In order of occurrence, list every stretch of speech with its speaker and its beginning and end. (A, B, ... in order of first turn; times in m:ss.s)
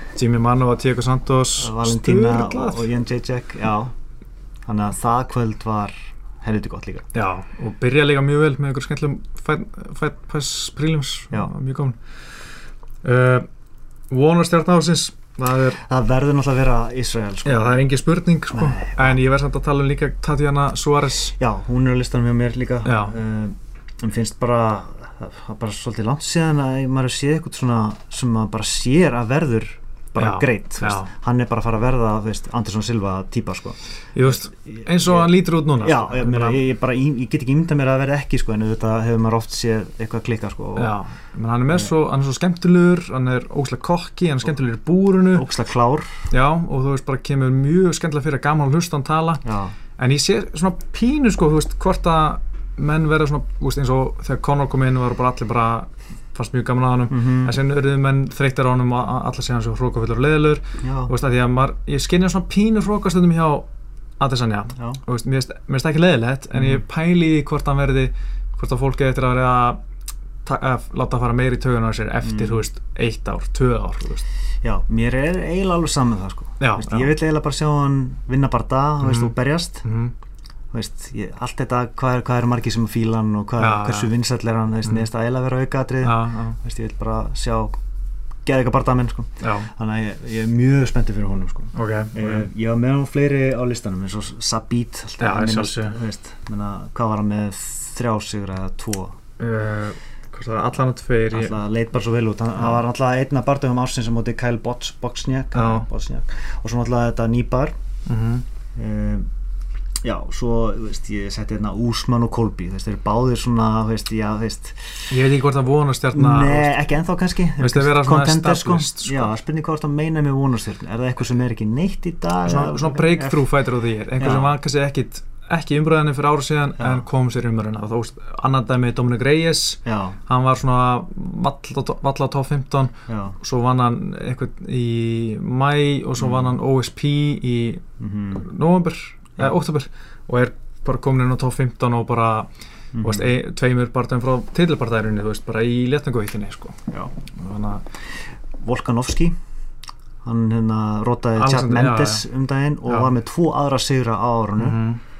0:00.2-0:02.9 A
0:01.6-0:03.9 B
0:04.6-0:07.0 B
0:07.1-0:12.0 A
0:13.0-0:13.5 A
0:14.1-0:15.8 A
0:15.8-0:17.8 B
0:17.4-0:21.4 A
0:18.5-0:19.2 B
0:21.4-0:33.8 B
0:22.8-0:23.2 A
0:30.2-0:31.1 A
0:34.1-0:36.6 A
0:34.3-0:41.0 B
0:40.8-0:45.5 A
0:45.3-0:46.2 B
0:46.3-0:49.4 A
0:49.4-0:49.8 B
0:50.0-1:03.7 A
0:57.1-0:57.6 B
1:00.8-1:01.1 B
1:04.2-1:09.8 A
1:06.5-1:06.8 B
1:10.4-1:14.2 A
1:12.2-1:12.6 B
1:14.6-1:19.8 B
1:16.6-1:17.1 A
1:19.0-1:20.1 A
1:20.7-1:27.7 B
1:23.6-1:24.1 A
1:26.0-1:26.6 A
1:28.4-1:39.2 B
1:29.4-1:29.7 A
1:31.7-1:32.5 A
1:35.2-1:36.0 A
1:39.4-1:41.6 A
1:41.3-1:47.7 B
1:45.5-1:45.9 A
1:48.0-1:48.4 A
1:48.8-1:49.3 B
1:50.0-1:55.1 B
1:55.1-1:56.8 A
1:56.1-2:03.5 B
1:57.6-1:59.3 A
2:02.4-2:17.8 A
2:04.2-2:04.6 B
2:06.8-2:07.0 B
2:09.8-2:10.2 B
2:13.1-2:13.4 B
2:16.2-2:16.6 B
2:18.0-2:18.5 B
2:18.3-2:22.5 A
2:22.9-2:23.3 B
2:23.0-2:27.8 A
2:28.6-2:29.3 B
2:30.2-2:34.8 B
2:31.4-2:32.2 A
2:34.6-2:35.0 A